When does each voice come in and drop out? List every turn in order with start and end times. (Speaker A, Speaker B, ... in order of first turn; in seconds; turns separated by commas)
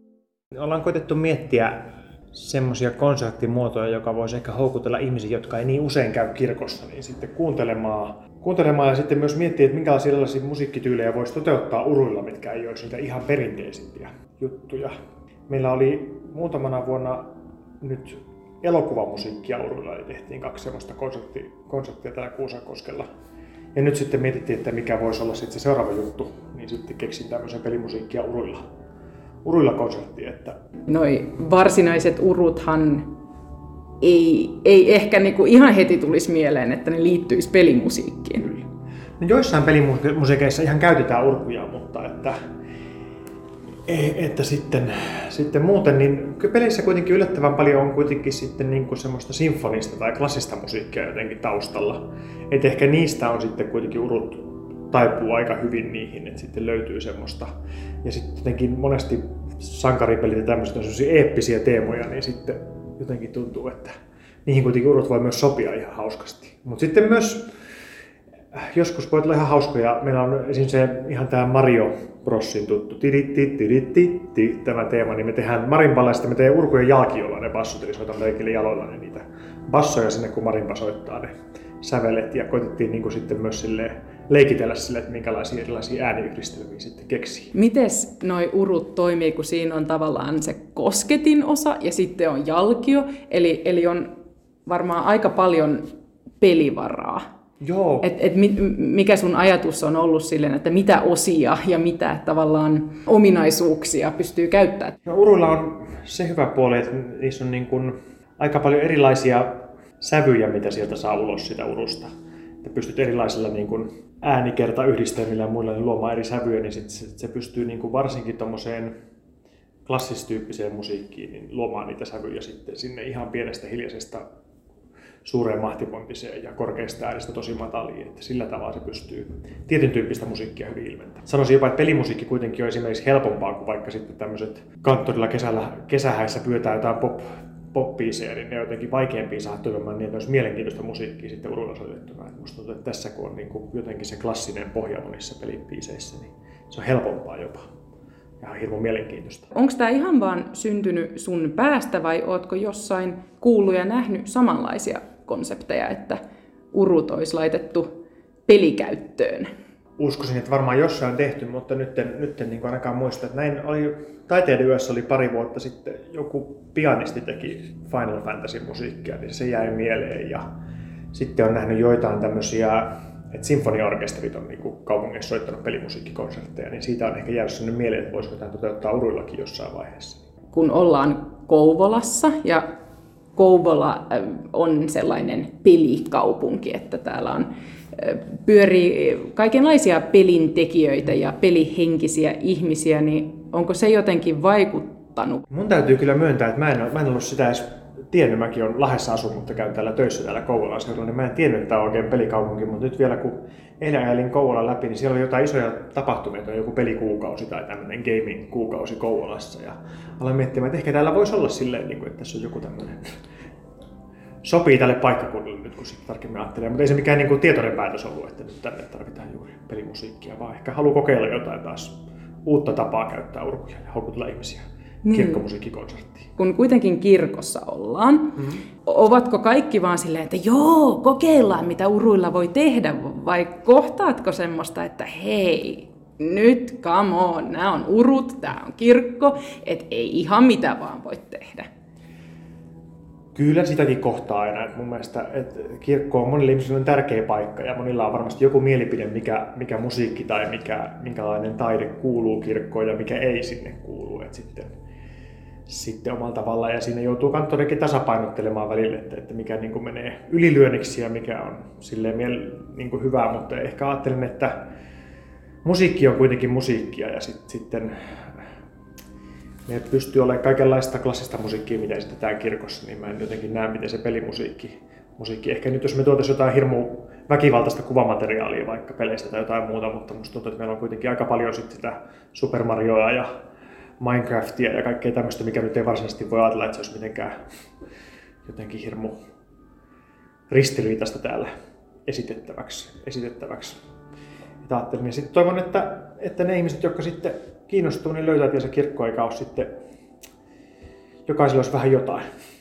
Speaker A: 0.5-1.8, Speaker A: 2.3-14.9, Speaker A: 15.5-23.1, Speaker A: 23.7-28.6, Speaker A: 29.4-30.6, Speaker B: 30.9-33.1, Speaker B: 34.0-38.5, Speaker A: 39.2-42.4, Speaker A: 43.9-57.5, Speaker A: 58.0-63.9, Speaker A: 64.5-67.5, Speaker A: 68.5-87.5, Speaker B: 87.5-94.1, Speaker B: 94.6-95.9, Speaker B: 96.4-97.2, Speaker A: 97.6-98.1, Speaker B: 98.0-104.9, Speaker A: 105.0-112.1, Speaker A: 112.6-118.9, Speaker A: 119.8-124.2, Speaker A: 125.2-147.7, Speaker A: 148.4-149.5, Speaker B: 149.5-156.2, Speaker B: 156.7-157.9, Speaker B: 158.5-159.5, Speaker A: 160.0-170.4, Speaker A: 171.1-180.2, Speaker B: 180.5-182.6, Speaker B: 183.3-195.4, Speaker A: 195.5-213.0, Speaker A: 214.4-226.3, Speaker B: 225.0-225.4, Speaker B: 226.4-241.7, Speaker A: 228.3-228.6, Speaker A: 243.3-254.7, Speaker A: 255.7-264.7, Speaker A: 265.6-267.9, Speaker A: 269.6-283.3, Speaker A: 284.0-287.4, Speaker A: 288.4-289.2, Speaker A: 290.5-291.5, Speaker A: 292.1-293.8, Speaker A: 294.6-299.7, Speaker A: 301.2-302.2